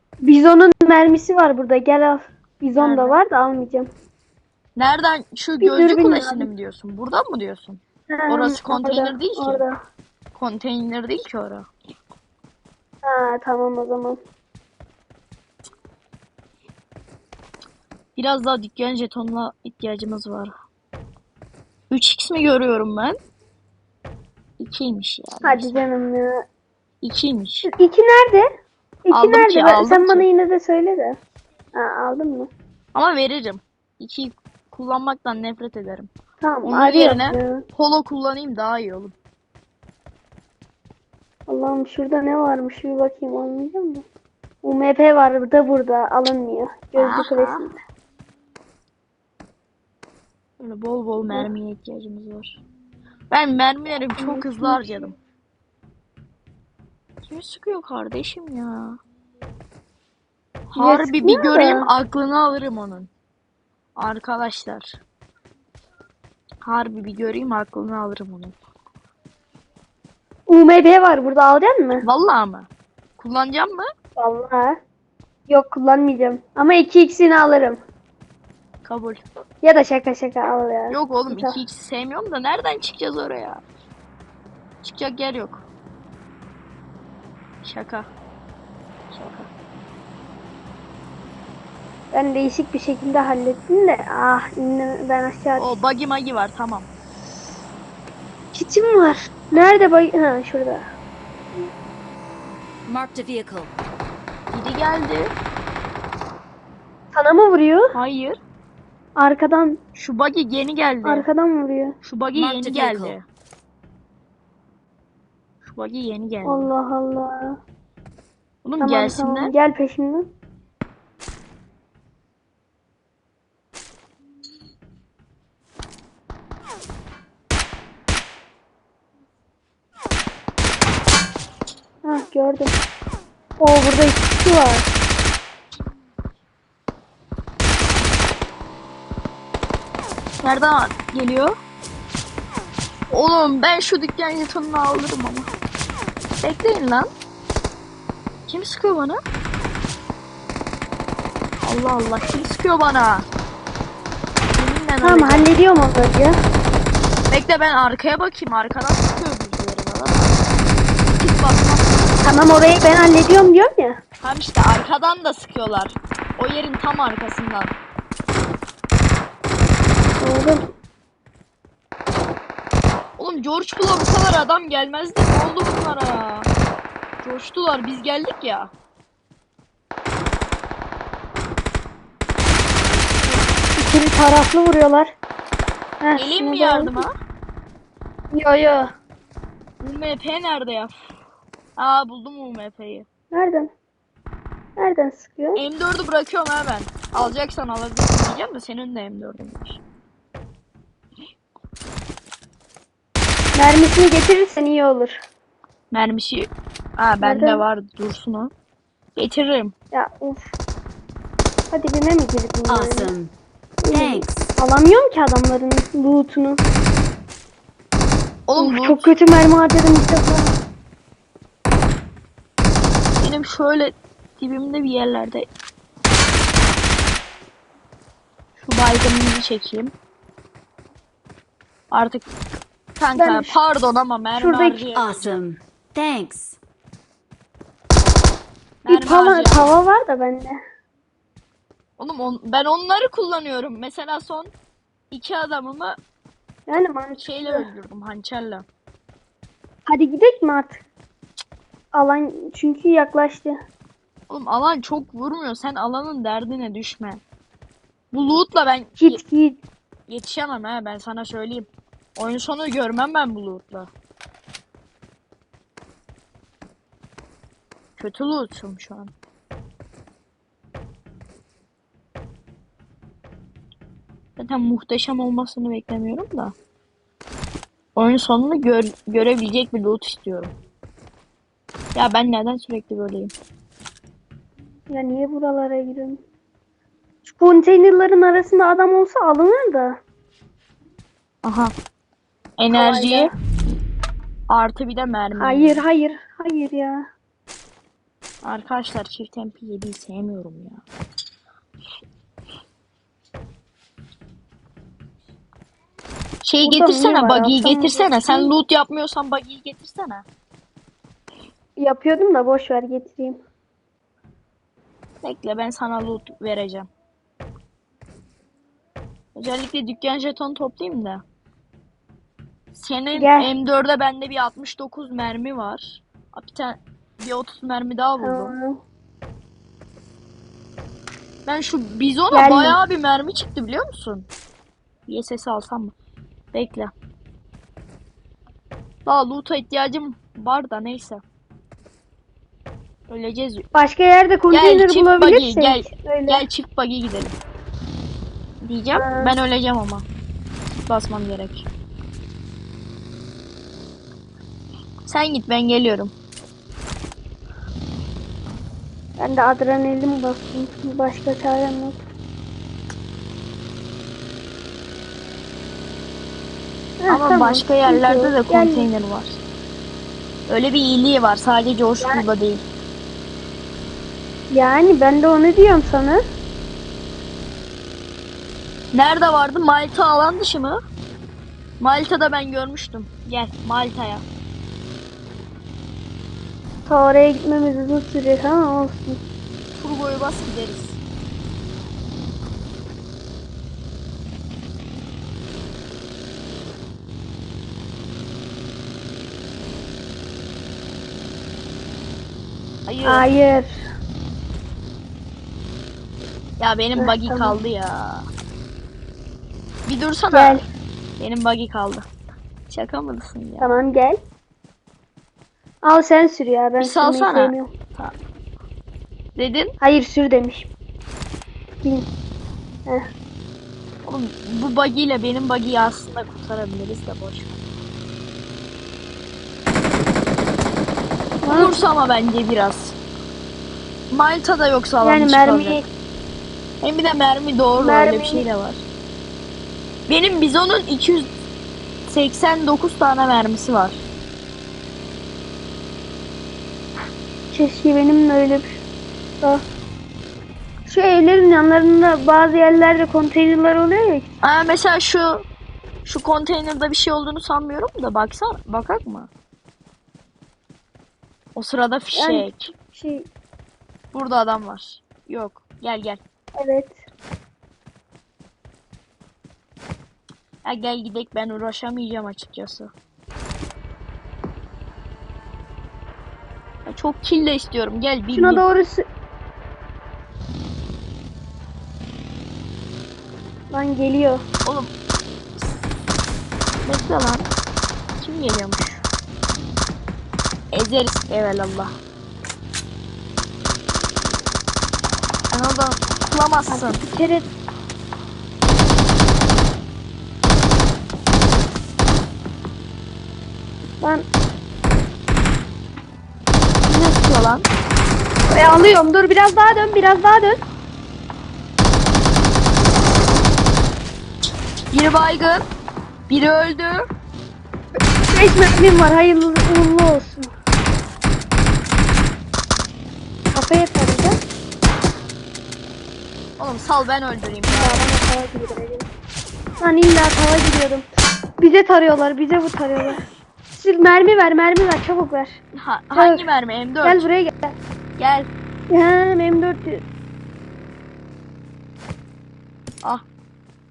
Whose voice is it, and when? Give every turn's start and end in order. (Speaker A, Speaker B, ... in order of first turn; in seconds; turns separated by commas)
Speaker A: 0.2-3.9, Speaker B: 2.8-3.2, Speaker B: 4.8-9.6, Speaker A: 5.6-6.5, Speaker A: 8.1-9.8, Speaker B: 10.3-11.7, Speaker A: 13.0-14.2, Speaker B: 18.2-20.5, Speaker B: 21.9-23.2, Speaker B: 24.6-25.8, Speaker A: 25.4-26.4, Speaker B: 27.0-27.7, Speaker A: 27.7-28.5, Speaker A: 29.1-31.2, Speaker B: 29.1-30.3, Speaker A: 31.7-32.5, Speaker B: 32.9-36.1, Speaker A: 36.4-37.6, Speaker B: 36.6-39.1, Speaker A: 41.5-44.0, Speaker A: 44.6-47.8, Speaker B: 47.0-47.7, Speaker B: 50.6-52.6, Speaker B: 53.3-55.2, Speaker A: 54.2-55.1, Speaker B: 57.2-59.0, Speaker B: 60.7-63.1, Speaker A: 60.8-61.9, Speaker B: 64.0-65.0, Speaker B: 66.6-68.5, Speaker A: 70.5-72.0, Speaker B: 72.0-73.9, Speaker A: 74.2-74.8, Speaker A: 75.5-77.8, Speaker B: 78.8-79.2, Speaker A: 79.6-81.6, Speaker B: 80.9-83.6, Speaker B: 84.8-85.7, Speaker B: 87.6-88.1, Speaker B: 89.1-89.5, Speaker A: 92.1-95.8, Speaker B: 95.6-96.9, Speaker A: 98.5-100.8, Speaker C: 102.8-103.7, Speaker B: 104.5-105.3, Speaker A: 107.1-107.9, Speaker B: 107.9-108.4, Speaker A: 109.2-109.8, Speaker B: 109.9-111.3, Speaker A: 111.0-111.9, Speaker B: 112.0-113.2, Speaker C: 112.3-113.2, Speaker B: 115.6-116.7, Speaker A: 116.4-117.6, Speaker B: 118.6-119.5, Speaker A: 118.8-120.3, Speaker A: 132.0-132.7, Speaker A: 133.6-134.9, Speaker B: 140.4-141.5, Speaker B: 143.1-145.5, Speaker B: 146.4-147.1, Speaker B: 148.5-149.2, Speaker B: 151.6-153.3, Speaker B: 154.5-155.5, Speaker A: 155.0-156.4, Speaker B: 157.3-160.6, Speaker B: 161.1-162.2, Speaker A: 162.2-164.0, Speaker B: 164.2-167.7, Speaker A: 170.2-170.7, Speaker B: 173.2-176.5, Speaker B: 177.2-178.7, Speaker A: 183.7-185.2, Speaker A: 186.0-187.1, Speaker B: 186.2-187.1, Speaker A: 188.3-188.9, Speaker B: 189.8-190.9, Speaker B: 191.8-193.1, Speaker A: 193.3-193.7, Speaker A: 194.8-195.6, Speaker B: 195.6-199.8, Speaker A: 203.6-205.2, Speaker B: 205.9-208.5, Speaker A: 207.2-207.6, Speaker B: 209.2-209.7, Speaker A: 209.9-210.5, Speaker A: 211.7-213.1, Speaker C: 212.7-213.3, Speaker A: 213.8-216.6, Speaker C: 213.9-214.5, Speaker B: 218.5-219.1, Speaker A: 218.6-220.5, Speaker B: 223.2-225.4, Speaker B: 228.6-229.9, Speaker B: 231.9-232.3, Speaker B: 232.9-235.4, Speaker A: 233.2-233.6, Speaker A: 234.4-234.9, Speaker C: 234.9-236.6, Speaker B: 238.8-239.7, Speaker A: 238.9-240.6, Speaker B: 242.0-244.5, Speaker B: 245.1-246.0, Speaker A: 246.7-247.7, Speaker B: 247.2-248.7, Speaker A: 249.9-250.8, Speaker A: 251.9-253.6, Speaker B: 254.3-257.2, Speaker B: 258.1-259.2, Speaker A: 259.0-259.6, Speaker B: 260.1-263.9, Speaker B: 268.0-269.1, Speaker B: 274.4-276.6, Speaker B: 277.9-280.5, Speaker B: 281.9-283.3, Speaker A: 284.9-286.2, Speaker A: 287.2-290.0, Speaker B: 291.4-291.7, Speaker B: 292.6-293.3, Speaker A: 292.7-293.3, Speaker B: 294.5-295.8, Speaker A: 295.4-297.1, Speaker B: 298.4-300.8, Speaker B: 306.4-310.2, Speaker A: 306.6-308.5, Speaker A: 311.8-313.4, Speaker B: 315.2-316.9, Speaker B: 319.3-321.2, Speaker B: 322.7-328.6, Speaker A: 323.1-323.5, Speaker A: 328.2-328.8, Speaker B: 331.4-334.3, Speaker A: 332.3-332.8, Speaker B: 335.1-335.9, Speaker B: 336.5-336.9, Speaker B: 339.1-341.2, Speaker B: 343.1-343.6, Speaker A: 343.7-346.4, Speaker B: 344.5-347.3, Speaker B: 348.6-350.1, Speaker A: 348.9-349.3, Speaker B: 350.7-351.7, Speaker B: 355.1-356.1, Speaker A: 359.2-362.0, Speaker A: 367.0-368.9, Speaker B: 367.1-369.4, Speaker B: 370.5-372.6, Speaker A: 372.0-372.2, Speaker A: 374.5-376.2, Speaker B: 378.9-380.8, Speaker B: 381.8-384.2, Speaker A: 386.9-389.2, Speaker B: 389.8-391.0, Speaker B: 402.9-403.3, Speaker A: 403.0-403.7, Speaker B: 406.6-408.3, Speaker A: 407.0-407.6, Speaker B: 409.9-410.6, Speaker A: 410.3-410.6, Speaker B: 411.2-412.1, Speaker B: 412.7-413.8, Speaker A: 413.6-414.2, Speaker A: 415.8-417.7, Speaker B: 416.8-418.1, Speaker B: 419.4-419.7, Speaker A: 419.8-420.7, Speaker B: 424.1-427.6, Speaker A: 431.4-431.8, Speaker B: 431.4-433.0, Speaker B: 434.1-435.8, Speaker A: 435.0-435.9, Speaker B: 436.8-438.8, Speaker A: 437.8-438.4, Speaker B: 440.1-441.3, Speaker B: 442.1-444.0, Speaker A: 447.5-448.8, Speaker A: 450.9-454.3, Speaker B: 454.4-455.4, Speaker B: 456.1-459.3, Speaker B: 461.6-462.7, Speaker A: 462.1-463.3, Speaker B: 464.1-466.2, Speaker A: 466.6-467.0, Speaker B: 470.6-472.9, Speaker B: 476.9-478.6, Speaker A: 478.3-479.1, Speaker A: 483.7-484.4, Speaker B: 484.6-484.9, Speaker B: 486.8-487.5, Speaker B: 488.2-489.1, Speaker B: 490.7-491.9, Speaker B: 495.5-497.0, Speaker A: 496.7-497.5, Speaker A: 504.0-504.3, Speaker B: 506.8-507.7, Speaker A: 508.5-510.6, Speaker B: 514.9-515.6, Speaker B: 516.3-517.0, Speaker A: 518.3-520.5, Speaker A: 523.5-524.4, Speaker B: 526.6-528.1, Speaker A: 527.7-529.1, Speaker A: 529.8-531.1, Speaker A: 531.6-535.6, Speaker B: 535.8-537.3, Speaker A: 536.1-536.5, Speaker A: 537.0-537.8, Speaker B: 538.2-538.5, Speaker A: 538.9-540.0